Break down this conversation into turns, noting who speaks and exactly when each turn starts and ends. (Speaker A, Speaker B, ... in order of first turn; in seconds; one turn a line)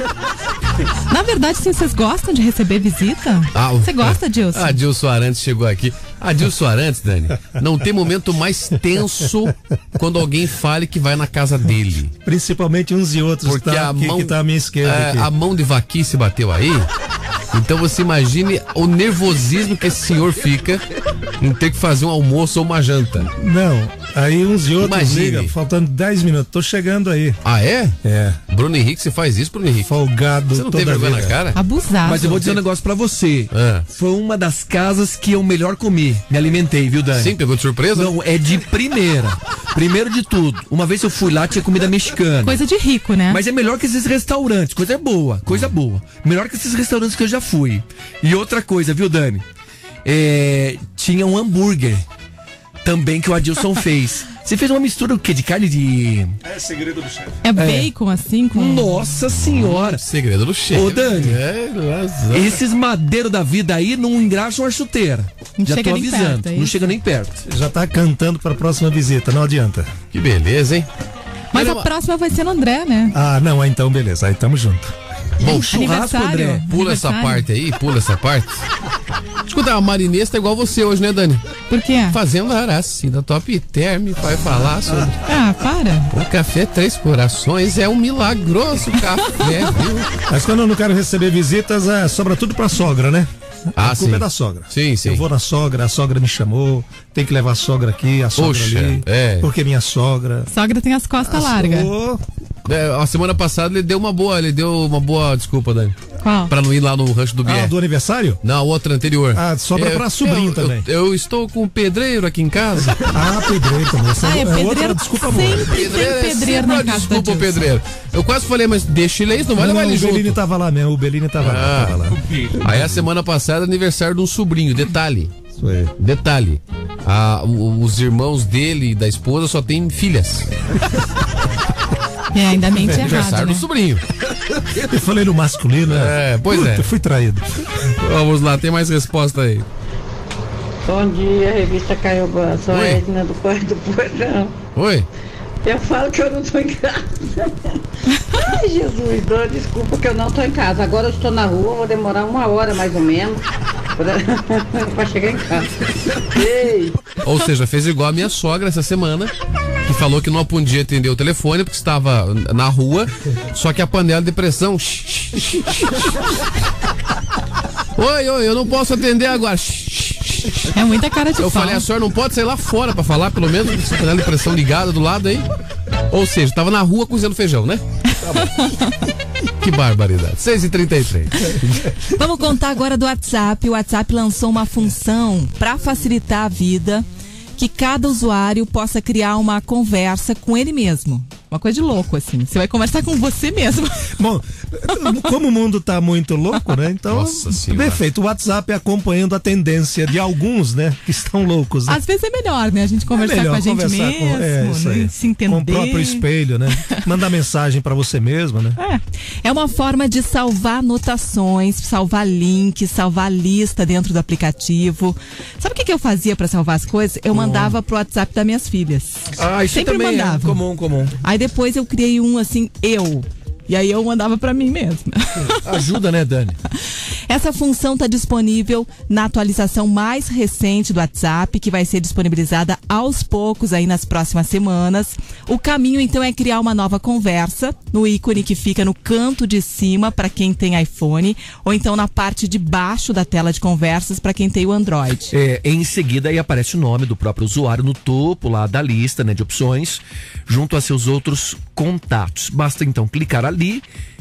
Speaker A: 1.1-4.8
Speaker B: 3.5-12.1
Speaker C: 12.2-15.3
Speaker B: 13.4-16.9
Speaker B: 17.5-20.8
Speaker B: 21.4-23.3
Speaker C: 23.4-27.4
Speaker B: 24.8-25.5
Speaker B: 27.4-28.0
Speaker C: 28.0-28.4
Speaker B: 28.5-29.9
Speaker C: 29.8-31.4
Speaker B: 30.5-31.6
Speaker A: 31.5-32.4
Speaker D: 32.0-37.4
Speaker B: 33.5-33.9
Speaker B: 37.2-38.1
Speaker D: 37.9-42.6
Speaker A: 42.4-43.4
Speaker D: 43.3-49.4
Speaker D: 50.0-52.0
Speaker D: 52.8-56.4
Speaker C: 56.4-57.4
Speaker A: 57.4-59.1
Speaker D: 57.5-57.9
Speaker D: 58.5-60.0
Speaker B: 59.3-62.6
Speaker D: 60.7-61.4
Speaker D: 62.3-67.4
Speaker A: 65.6-67.0
Speaker C: 67.5-69.9
Speaker B: 70.1-70.9
Speaker A: 71.5-73.1
Speaker B: 71.5-71.9
Speaker C: 73.1-74.9
Speaker D: 75.4-76.7
Speaker A: 75.4-77.4
Speaker B: 76.7-78.6
Speaker B: 79.5-81.4
Speaker A: 81.7-82.2
Speaker B: 82.1-85.2
Speaker A: 85.3-86.1
Speaker B: 86.1-90.1
Speaker C: 90.3-100.5
Speaker B: 93.8-95.2
Speaker B: 98.3-99.5
Speaker A: 100.5-101.9
Speaker C: 101.2-102.2
Speaker B: 102.7-105.9
Speaker A: 106.2-106.5
Speaker B: 106.5-107.7
Speaker C: 107.4-108.4
Speaker B: 108.4-113.0
Speaker C: 109.3-110.8
Speaker C: 113.1-115.8
Speaker A: 114.2-117.6
Speaker B: 115.6-120.4
Speaker C: 119.5-122.2
Speaker B: 121.4-125.3
Speaker C: 125.6-125.9
Speaker B: 126.0-130.5
Speaker A: 132.3-133.6
Speaker B: 132.9-134.0
Speaker C: 134.8-137.5
Speaker B: 135.9-136.8
Speaker B: 138.0-139.7
Speaker E: 140.9-144.5
Speaker B: 142.7-143.0
Speaker B: 144.8-145.1
Speaker E: 145.6-147.2
Speaker E: 148.4-153.4
Speaker E: 154.0-155.7
Speaker E: 156.3-156.9
Speaker B: 157.2-159.3
Speaker B: 159.8-166.2
Speaker B: 168.0-170.7
Speaker A: 170.7-171.8
Speaker B: 171.4-175.4
Speaker B: 176.1-178.5
Speaker B: 179.6-181.8
Speaker A: 182.2-187.1
Speaker A: 187.6-194.1
Speaker C: 194.2-202.0
Speaker B: 197.1-198.0
Speaker A: 201.9-206.2
Speaker C: 203.2-208.8
Speaker A: 208.8-220.6
Speaker D: 217.3-217.8
Speaker D: 219.4-221.2
Speaker A: 221.2-225.6
Speaker D: 225.6-226.6
Speaker A: 227.3-245.3
Speaker D: 245.3-253.8